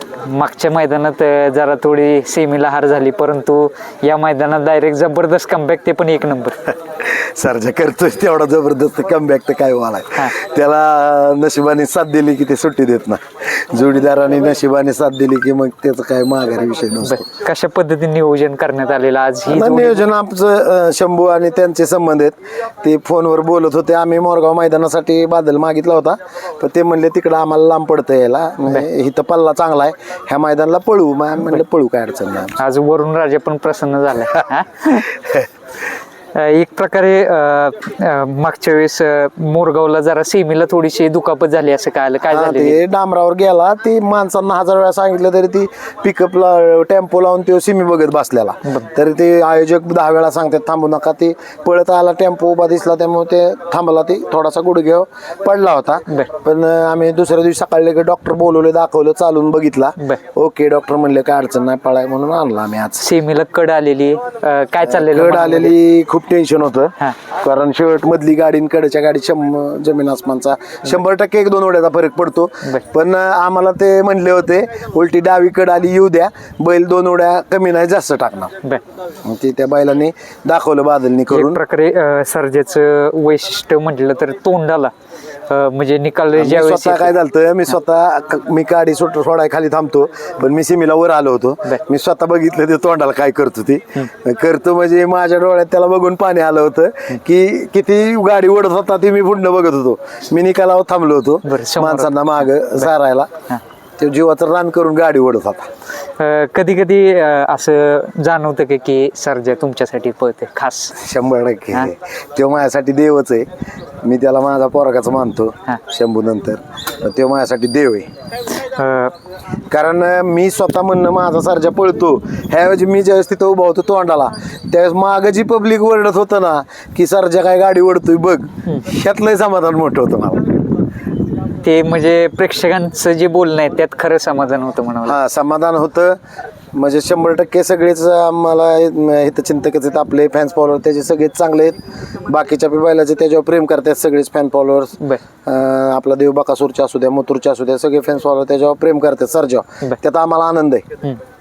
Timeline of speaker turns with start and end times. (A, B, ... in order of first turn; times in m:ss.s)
0:00.2-0:06.7 A
0:07.0-0:17.2 B
0:17.0-0:20.0 A
0:19.5-0:32.6 B
0:32.6-0:35.1 A
0:36.3-0:42.8 A
0:42.3-1:03.0 B
1:03.0-1:05.7 A
1:04.8-1:18.5 B
1:19.2-1:21.6 B
1:21.3-1:24.9 A
1:25.5-1:27.1 A
1:26.4-1:43.3 B
1:41.4-1:42.1 A
1:44.0-1:45.7 B
1:46.2-1:51.0 A
1:51.0-1:53.5 B
1:54.0-1:58.1 B
1:58.6-1:59.1 A
1:59.7-2:10.6 B
2:11.6-2:15.2 A
2:15.0-2:16.2 B
2:16.7-2:30.8 B